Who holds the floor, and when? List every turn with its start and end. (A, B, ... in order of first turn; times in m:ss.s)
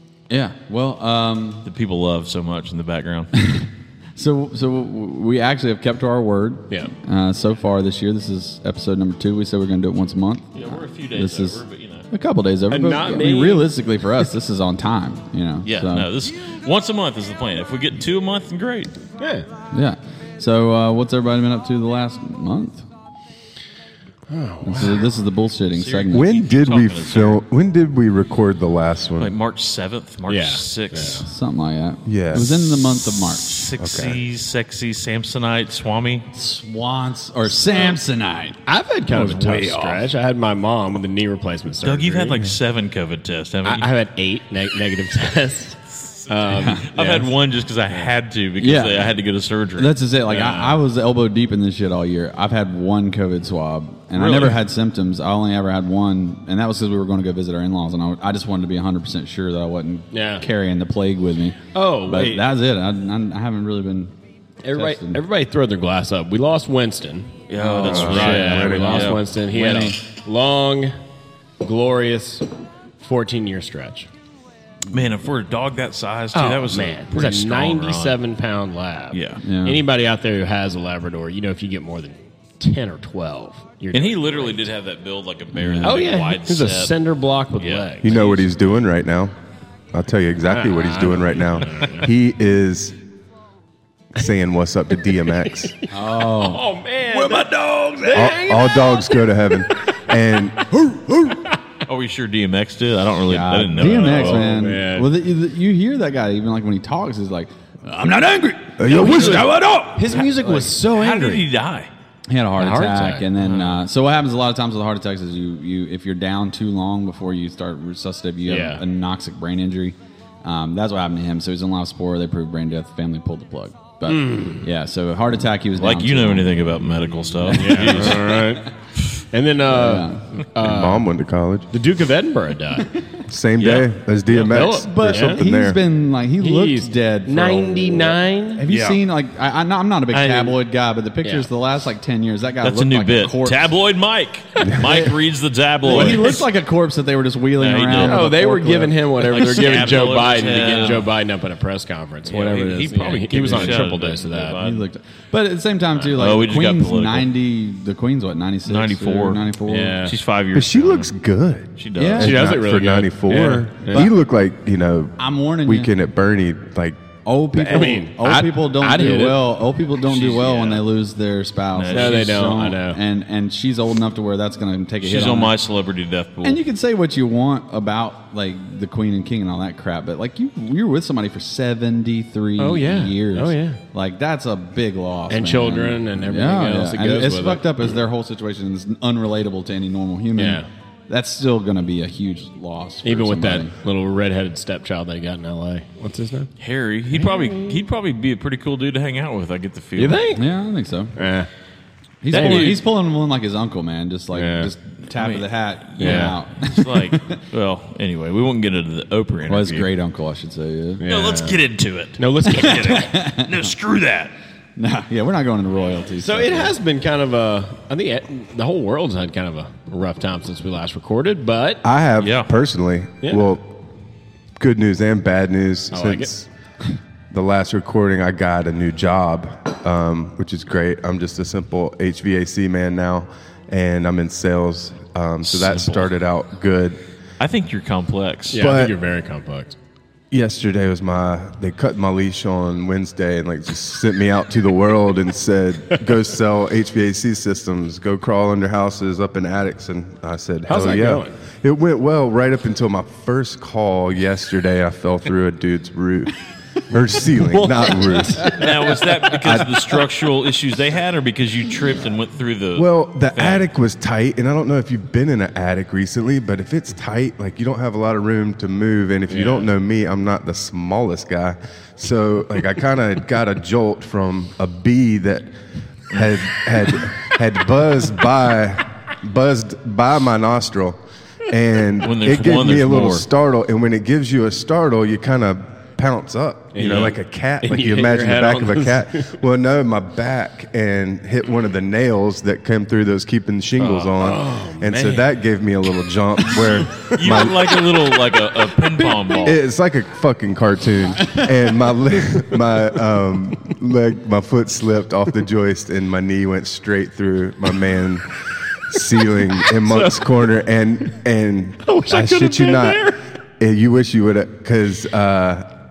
0:00.3-0:01.7 A
0:01.6-0:03.3 B
0:03.4-0:16.1 A
0:10.5-0:12.1 B
0:12.7-0:13.7 C
0:15.6-0:18.9 B
0:19.2-0:19.5 C
0:19.7-0:22.9 A
0:24.3-0:25.1 C
0:24.6-0:26.2 A
0:25.7-0:27.4 B
0:26.1-0:29.3 D
0:29.2-0:31.3 B
0:30.3-0:31.2 C
0:31.2-0:33.6 A
0:32.0-0:32.6 D
0:33.1-0:36.3 B
0:33.8-0:34.2 D
0:36.3-0:40.1 A
0:38.6-0:42.4 C
0:41.8-0:43.9 B
0:43.6-0:47.2 C
0:46.5-0:47.2 A
0:46.9-0:50.0 B
0:48.6-0:49.1 A
0:49.8-1:04.1 A
0:50.3-0:50.8 C
0:54.1-0:54.6 B
1:00.1-1:00.4 C
1:01.7-1:02.5 C
1:04.6-1:11.0 C
1:04.7-1:05.2 A
1:07.5-1:09.3 B
1:07.6-1:10.0 A
1:07.8-1:08.9 D
1:11.6-1:12.5 C
1:13.0-1:14.1 C
1:14.9-1:18.2 B
1:16.3-1:24.6 C
1:19.1-1:19.4 B
1:19.4-1:19.8 A
1:23.9-1:27.0 B
1:25.5-1:26.0 A
1:25.8-1:28.5 C
1:27.5-1:27.9 B
1:28.0-1:29.3 D
1:29.9-1:33.0 D
1:30.5-1:32.1 C
1:34.1-1:35.8 D
1:35.9-1:38.3 A
1:35.9-1:39.1 C
1:38.1-1:40.8 D
1:41.9-1:44.5 B
1:43.3-1:50.7 A
1:43.8-1:45.1 C
1:48.8-1:50.0 D
1:48.9-1:51.5 C
1:49.0-1:49.4 B
1:50.8-1:51.9 B
1:52.3-2:06.6 A
1:52.6-1:53.3 C
1:53.4-1:53.8 B
1:58.5-1:58.8 C
2:04.0-2:04.6 C
2:05.8-2:08.5 B
2:07.4-2:08.3 A
2:07.5-2:08.7 C
2:09.3-2:11.0 C
2:09.7-2:10.2 A
2:10.6-2:11.7 D
2:11.7-2:12.9 C
2:13.3-2:15.8 D
2:13.6-2:13.9 B
2:14.3-2:15.4 C
2:14.8-2:23.6 A
2:16.4-2:18.7 C
2:20.1-2:20.5 C
2:21.2-2:21.5 C
2:22.6-2:26.4 B
2:24.8-2:25.1 A
2:25.8-2:29.0 A
2:25.9-2:26.4 C
2:27.6-2:28.2 B
2:28.0-2:34.6 C
2:29.3-2:31.1 B
2:32.2-2:34.8 B
2:33.5-2:33.8 A
2:34.6-2:40.0 A
2:36.1-2:37.3 B
2:38.6-2:39.5 B
2:39.6-2:40.2 C
2:40.0-2:41.1 B
2:40.5-2:47.0 D
2:41.8-2:42.4 B
2:42.0-2:42.3 A
2:42.2-2:44.1 C
2:45.2-2:45.9 A
2:47.2-2:55.5 A
2:47.5-2:48.0 D
2:47.7-2:49.5 C
2:50.2-2:50.8 B
2:51.8-2:52.3 B
2:51.9-2:53.0 C
2:55.0-2:56.6 B
2:56.4-3:13.7 A
3:02.6-3:03.8 C
3:05.3-3:08.0 C
3:10.4-3:10.7 C
3:13.0-3:16.5 C
3:16.6-3:20.2 B
3:17.1-3:17.8 C
3:20.0-3:20.5 C
3:20.3-3:21.2 A
3:21.2-3:21.5 C
3:22.2-3:27.4 A
3:22.3-3:22.8 B
3:22.3-3:22.8 C
3:24.3-3:24.7 C
3:25.1-3:29.9 B
3:26.0-3:26.4 C
3:29.5-3:31.0 A
3:31.0-3:31.6 C
3:31.0-3:34.3 B
3:32.2-3:33.1 C
3:32.6-3:33.6 A
3:34.8-3:36.7 A
3:36.2-3:41.8 C
3:41.8-3:43.7 D
3:42.2-3:42.5 B
3:43.2-3:43.5 C
3:44.6-3:46.5 D
3:45.9-3:46.3 C
3:47.3-3:57.0 D
3:55.5-3:56.1 B
3:57.4-3:58.8 B
3:58.5-3:59.8 C
3:58.5-3:58.9 D
4:00.3-4:16.3 D
4:10.7-4:11.4 C
4:16.9-4:18.7 D
4:17.4-4:18.9 C
4:18.6-4:23.6 B
4:19.3-4:19.7 D
4:22.8-4:35.5 D
4:29.3-4:29.7 C
4:36.1-4:57.7 D
4:36.1-4:36.4 B
4:42.0-4:43.2 B
4:46.7-4:49.3 C
4:53.8-4:54.1 B
4:54.2-4:55.3 C
4:57.1-4:59.6 B
4:59.4-5:08.3 D
5:08.9-5:15.7 D
5:09.8-5:10.5 C
5:11.8-5:13.2 C